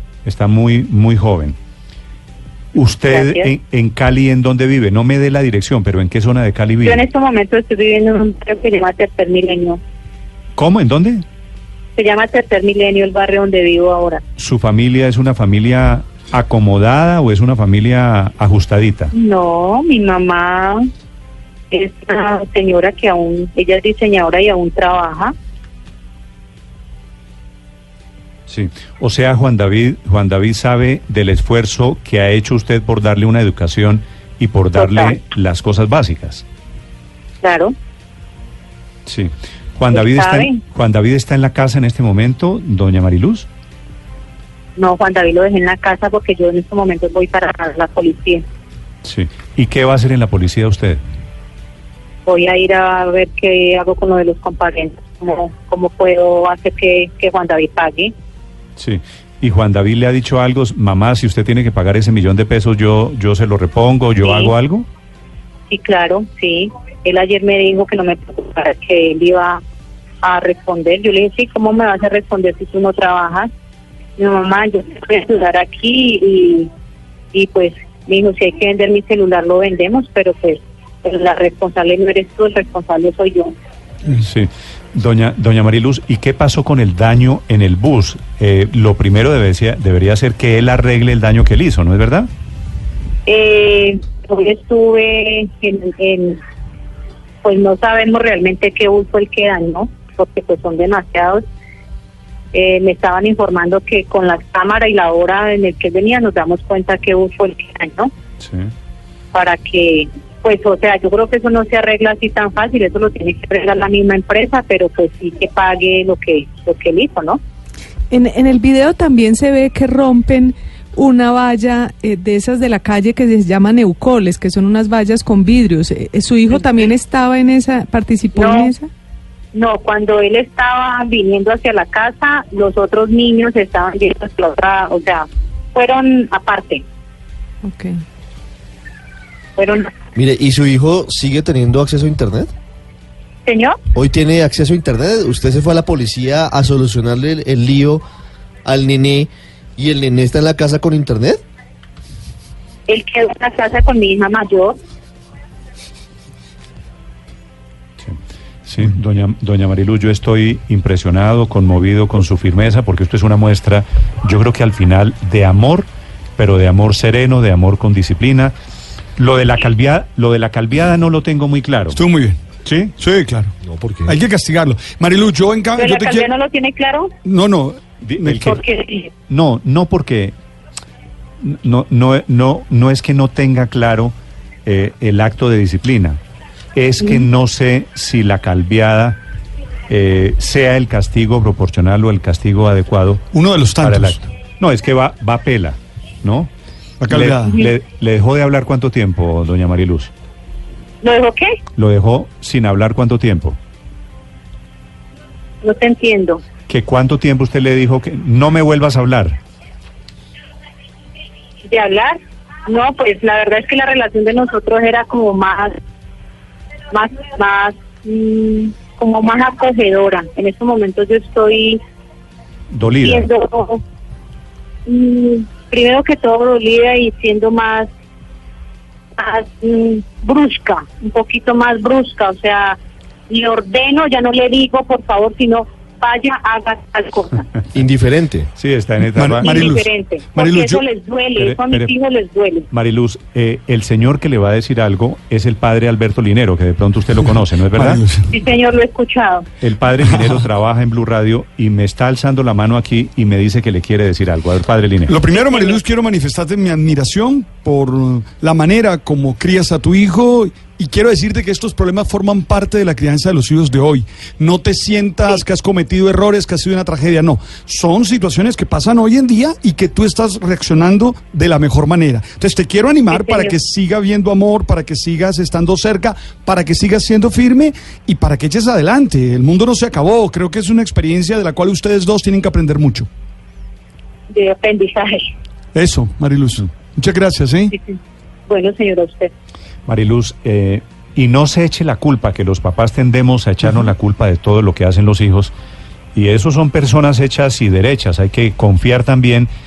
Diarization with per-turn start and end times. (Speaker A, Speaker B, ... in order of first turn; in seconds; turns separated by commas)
Speaker A: 0.2-1.6, Speaker A: 2.7-7.0, Speaker B: 3.1-3.5, Speaker B: 6.8-9.8, Speaker A: 10.6-11.2, Speaker B: 12.0-14.2, Speaker A: 14.4-19.1, Speaker B: 19.1-20.9, Speaker B: 21.7-25.3, Speaker A: 28.5-36.5, Speaker B: 34.8-35.2, Speaker B: 37.4-37.7, Speaker A: 39.1-43.5, Speaker B: 39.9-40.6, Speaker B: 44.8-48.5, Speaker A: 49.0-51.0, Speaker B: 52.3-58.1, Speaker A: 58.8-64.9, Speaker B: 64.2-64.5, Speaker B: 65.7-69.6, Speaker B: 70.2-73.5, Speaker B: 74.2-76.7, Speaker B: 77.3-83.5, Speaker A: 84.2-92.3, Speaker B: 93.3-96.4, Speaker B: 97.4-101.4, Speaker B: 102.5-108.1, Speaker A: 108.4-108.7, Speaker B: 109.3-117.4, Speaker C: 118.1-128.9, Speaker B: 126.5-126.8, Speaker B: 128.3-128.7, Speaker B: 129.5-136.8, Speaker C: 137.6-137.9, Speaker B: 139.6-139.9, Speaker D: 140.2-142.5, Speaker B: 143.4-143.8, Speaker D: 143.9-148.0, Speaker D: 148.7-151.4, Speaker B: 152.9-154.8, Speaker A: 158.0-168.5, Speaker A: 169.2-172.0, Speaker E: 171.9-176.3, Speaker A: 172.6-172.9, Speaker D: 173.7-174.2, Speaker B: 175.8-177.1, Speaker E: 177.2-178.5, Speaker A: 178.0-178.6, Speaker B: 178.4-179.1, Speaker A: 179.3-180.3, Speaker A: 181.4-186.2, Speaker A: 186.8-189.2, Speaker B: 187.0-187.3, Speaker A: 189.9-193.2, Speaker E: 193.3-194.2, Speaker A: 193.8-196.5, Speaker E: 197.0-197.5, Speaker A: 197.1-200.1, Speaker B: 201.0-201.5, Speaker A: 201.8-203.6, Speaker B: 205.6-206.4, Speaker A: 206.7-209.4, Speaker B: 211.7-215.7, Speaker B: 216.9-221.8, Speaker A: 222.7-223.3, Speaker B: 223.0-223.8, Speaker B: 224.9-227.9, Speaker B: 229.2-232.8, Speaker B: 233.3-237.4, Speaker D: 237.7-238.5, Speaker A: 238.6-239.6, Speaker E: 239.0-240.8, Speaker B: 239.4-242.7, Speaker A: 241.4-241.9, Speaker A: 242.7-248.0, Speaker E: 247.7-248.3, Speaker B: 248.3-249.5, Speaker A: 249.6-255.1, Speaker E: 250.1-250.4, Speaker E: 255.1-283.1, Speaker B: 255.3-255.8, Speaker B: 273.1-273.6, Speaker B: 284.3-285.3, Speaker E: 285.7-287.7, Speaker B: 287.7-289.3, Speaker A: 289.9-295.5, Speaker A: 296.1-299.5